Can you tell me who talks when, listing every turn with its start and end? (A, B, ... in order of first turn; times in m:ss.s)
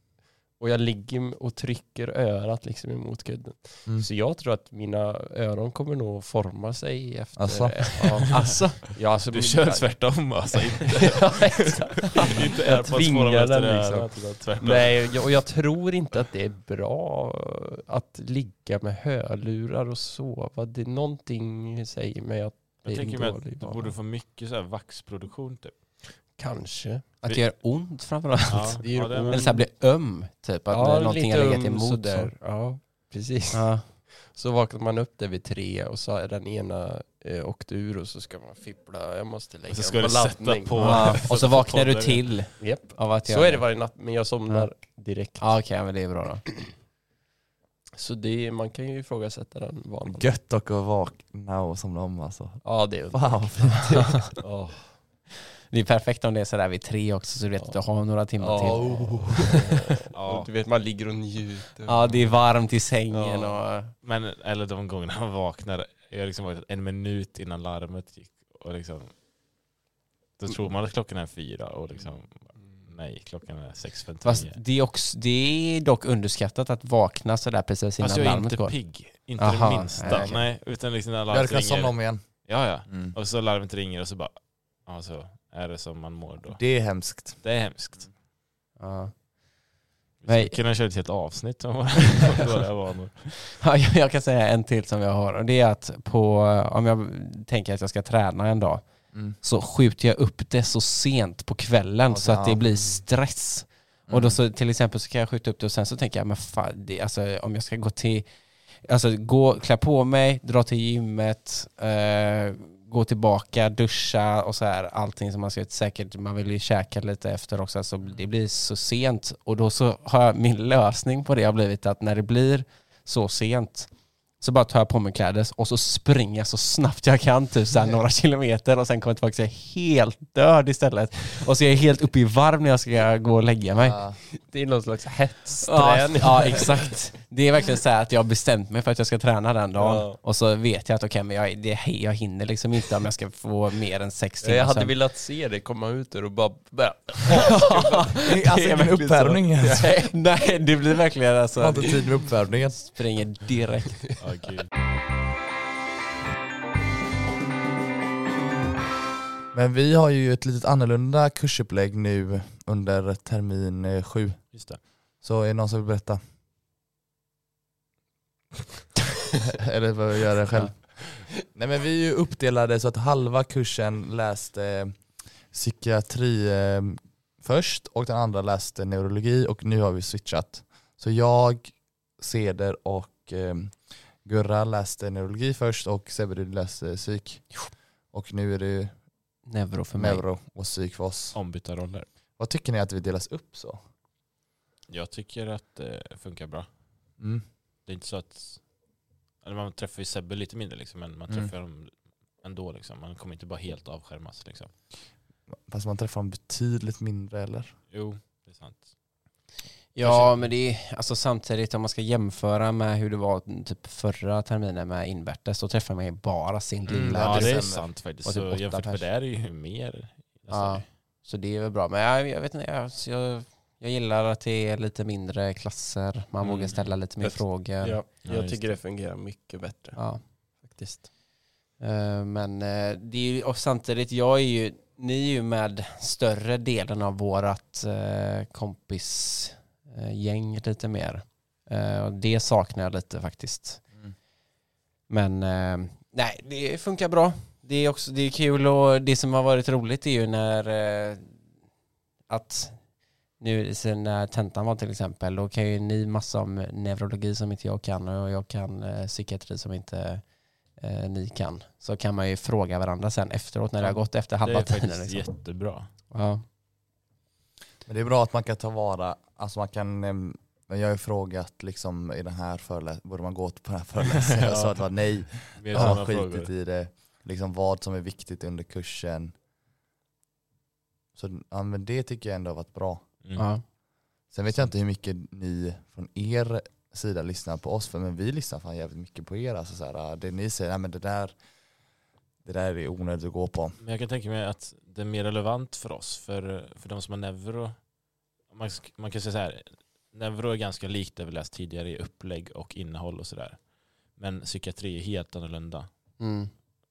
0:00.6-0:23.9 A
0:07.4-0:08.2 B
0:08.3-0:08.8 C
0:08.4-0:08.8 D
0:09.3-0:15.3 D
0:22.8-0:26.0 D
0:26.2-0:27.1 A
0:27.2-0:32.3 C
0:28.5-0:29.5 D
0:28.8-0:29.7 A
0:30.7-0:41.2 A
0:33.5-0:33.9 C
0:39.7-0:42.4 D
0:40.8-0:43.7 C
0:42.6-0:45.6 A
0:45.4-0:46.6 C
0:48.0-0:50.3 A
0:50.1-0:54.3 B
0:52.6-0:55.0 A
0:55.7-0:59.5 C
0:58.4-1:02.3 A
0:58.6-0:59.6 B
1:00.1-1:00.5 D
1:01.8-1:03.9 C
1:03.1-1:03.6 A
1:04.0-1:09.2 D
1:10.4-1:14.6 D
1:12.0-1:12.9 A
1:14.2-1:18.8 C
1:18.0-1:28.1 D
1:19.4-1:20.4 C
1:20.1-1:20.5 B
1:21.3-1:23.1 B
1:26.5-1:27.4 B
1:28.8-1:29.2 C
1:30.2-1:33.6 D
1:30.3-1:30.6 C
1:33.6-1:48.3 C
1:42.1-1:42.6 B
1:44.1-1:44.4 B
1:48.8-2:14.0 C
2:13.8-2:14.2 B
2:14.4-2:16.8 A
2:15.6-2:24.9 C
2:19.8-2:20.2 A
2:24.4-2:30.2 A
2:27.4-2:29.9 B
2:27.6-2:28.2 C
2:30.0-2:34.1 C
2:31.6-2:33.0 B
2:34.2-2:34.7 D
2:39.5-2:44.6 B
2:44.5-2:44.8 D
2:45.2-2:46.2 B
2:49.4-3:09.0 B
3:09.4-3:10.2 C
3:10.0-3:11.4 B
3:11.3-3:12.1 D
3:12.4-3:13.8 B
3:14.9-3:16.7 D
3:17.2-3:17.4 B
3:17.9-3:18.6 D
3:19.4-3:24.7 D
3:25.7-3:27.8 B
3:27.9-3:28.9 D
3:30.0-3:39.0 C
3:30.0-3:30.4 D
3:36.9-3:38.0 B
3:37.2-3:40.8 D
3:40.5-3:48.0 C
3:46.4-3:46.9 D
3:47.2-3:51.1 A
3:48.2-3:48.7 D
3:50.0-3:50.2 C
3:51.8-4:03.8 C
4:05.1-4:11.4 C
4:12.3-4:12.8 C
4:13.4-4:20.2 C
4:20.8-4:25.3 C
4:23.8-4:25.9 D
4:26.1-4:26.4 C
4:27.8-4:39.4 B
4:34.2-4:36.5 D
4:41.1-4:43.0 B
4:43.4-4:43.6 C
4:44.3-4:51.4 B
4:52.4-4:53.8 B
4:53.8-4:57.9 D
4:58.5-5:05.9 D
5:06.2-5:06.5 C